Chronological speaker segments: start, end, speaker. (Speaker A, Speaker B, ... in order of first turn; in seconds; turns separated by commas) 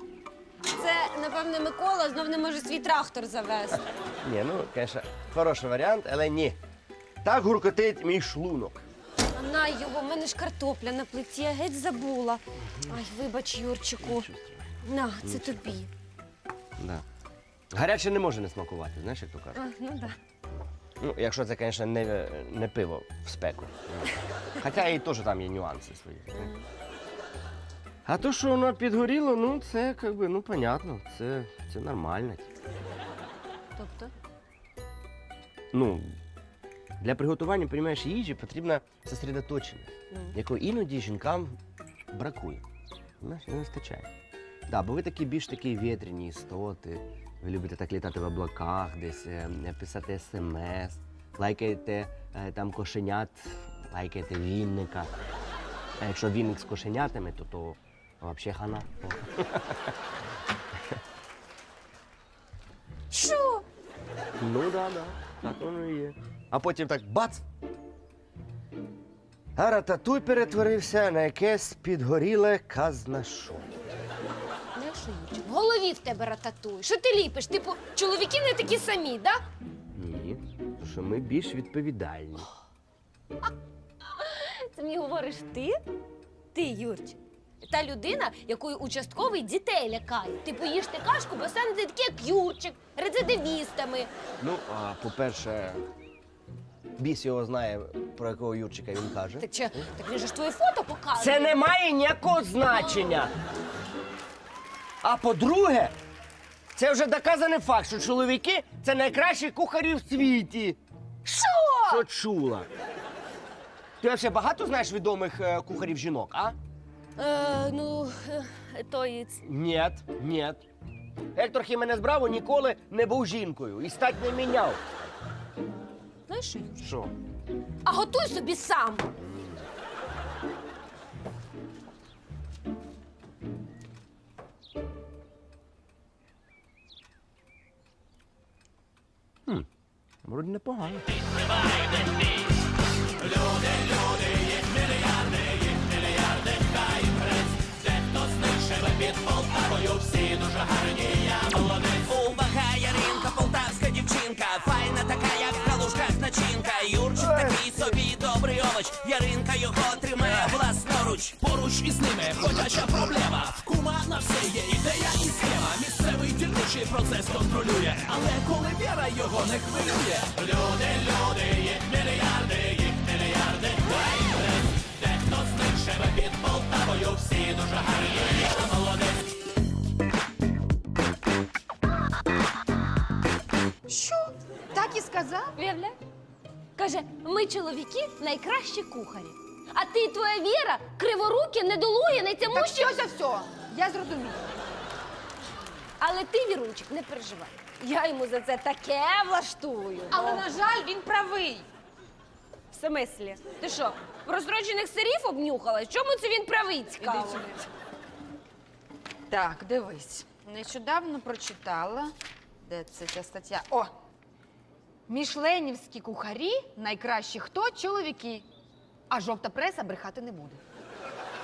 Speaker A: 0.7-3.8, Speaker B: 4.2-6.6, Speaker B: 7.2-8.8, Speaker A: 9.3-14.3, Speaker B: 14.0-14.7, Speaker A: 14.8-15.9, Speaker B: 15.2-15.6, Speaker B: 16.8-17.0, Speaker B: 17.7-19.6, Speaker A: 19.5-20.1, Speaker B: 21.0-26.5, Speaker A: 26.3-26.6, Speaker B: 28.1-32.5, Speaker A: 33.8-34.1, Speaker B: 35.7-36.2, Speaker B: 37.0-41.6, Speaker A: 40.1-40.4, Speaker B: 42.1-42.6, Speaker B: 43.2-44.1, Speaker B: 44.7-55.1, Speaker B: 56.0-59.9, Speaker B: 60.7-61.0, Speaker A: 63.1-63.6, Speaker B: 64.4-67.4, Speaker B: 69.5-73.7, Speaker A: 74.8-79.4, Speaker B: 79.9-82.5, Speaker A: 84.2-85.8, Speaker A: 86.5-94.1, Speaker B: 94.4-95.8, Speaker B: 97.0-99.8, Speaker A: 99.4-101.6, Speaker B: 101.2-103.3, Speaker B: 105.0-106.0, Speaker B: 106.7-110.8, Speaker A: 111.2-112.0, Speaker B: 111.8-112.7, Speaker B: 114.0-116.5, Speaker A: 117.2-119.4, Speaker B: 119.4-120.6, Speaker B: 121.3-124.8, Speaker A: 126.3-126.8, Speaker B: 126.8-127.1, Speaker A: 127.8-129.1, Speaker B: 140.2-141.1, Speaker C: 141.2-142.1, Speaker C: 143.2-151.3, Speaker D: 151.3-161.3, Speaker C: 161.3-179.1, Speaker E: 183.9-185.5, Speaker A: 185.6-186.0, Speaker A: 186.8-193.0, Speaker E: 192.5-194.5, Speaker A: 196.0-200.4, Speaker E: 200.1-201.7, Speaker A: 202.7-207.4, Speaker E: 207.0-207.7, Speaker E: 209.3-213.9, Speaker E: 215.1-218.4, Speaker E: 219.1-220.6